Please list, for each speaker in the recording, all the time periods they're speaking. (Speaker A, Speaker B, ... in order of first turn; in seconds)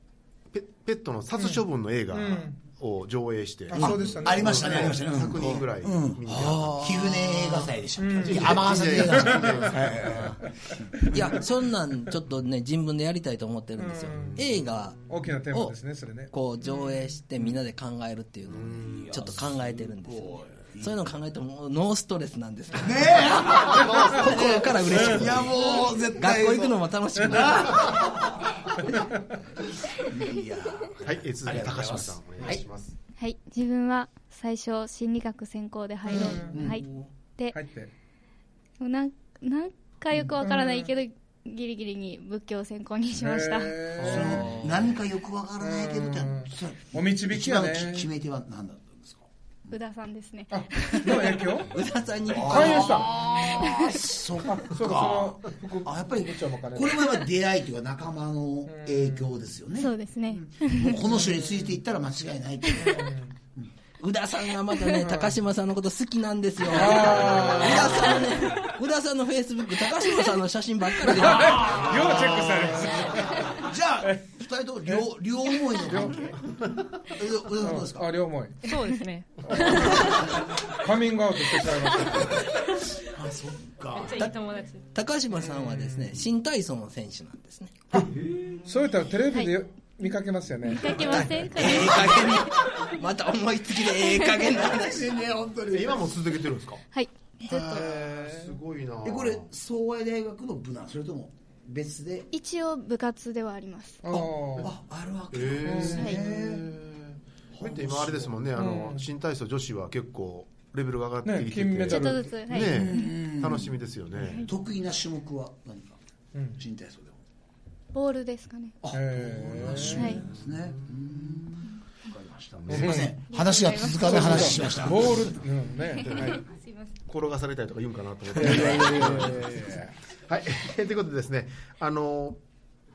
Speaker A: 0.5-7.1, 8.2-10.2, 14.2-14.6, 18.5-19.3, 31.0-32.9, 95.7-96.8, 97.5-99.5, 105.3-114.5, 120.2-120.9, 122.6-123.1, 127.1-129.7, 130.3-132.4
Speaker B: 1.4-2.6, 3.7-5.1, 8.0-9.8, 11.0-11.4, 13.8-14.4, 15.1-17.1, 28.9-29.4, 36.1-36.7, 37.5-37.9, 40.4-40.9, 43.1-44.5, 45.6-48.1, 50.5-51.8, 52.4-53.1, 54.4-57.1, 58.7-59.3, 61.0-61.8, 62.8-63.3, 65.0-65.4, 66.7-68.1, 71.0-74.2, 75.8-76.3, 77.6-78.7, 79.5-82.5, 85.3-86.2, 88.6-91.3, 97.6-98.6, 104.0-104.7, 105.6-106.1, 108.5-109.1, 111.2-112.4, 116.3-116.6, 118.9-120.1, 122.7-123.2, 124.0-126.4, 128.3-129.9
Speaker C: 3.8-10.4, 18.9-21.0, 22.8-28.5, 29.9-32.6, 36.5-36.8, 44.0-49.3, 52.3-63.7, 67.1-68.3, 71.5-72.0, 73.3-76.4, 77.0-78.1, 83.0-84.3, 91.5-92.5, 94.5-96.1, 99.0-102.3, 104.1-106.7, 107.5-108.3, 112.7-113.7, 114.4-116.0, 116.5-117.2, 118.8-125.3, 128.4-129.3
Speaker D: 6.3-7.6, 11.1-15.8, 16.3-28.1, 44.2-44.9, 51.7-53.3, 64.0-71.8, 84.9-87.8, 90.8-95.1
Speaker E: 33.2-37.6, 38.8-44.0, 49.7-51.4, 53.6-53.9, 59.8-61.0, 89.3-89.5, 90.6-92.6, 94.0-94.5, 96.9-97.9, 102.3-104.0, 111.9-113.1, 114.2-114.5, 117.9-118.8, 119.8-120.2, 123.3-124.5, 125.8-126.9
Speaker F: 78.6-80.3, 83.9-84.9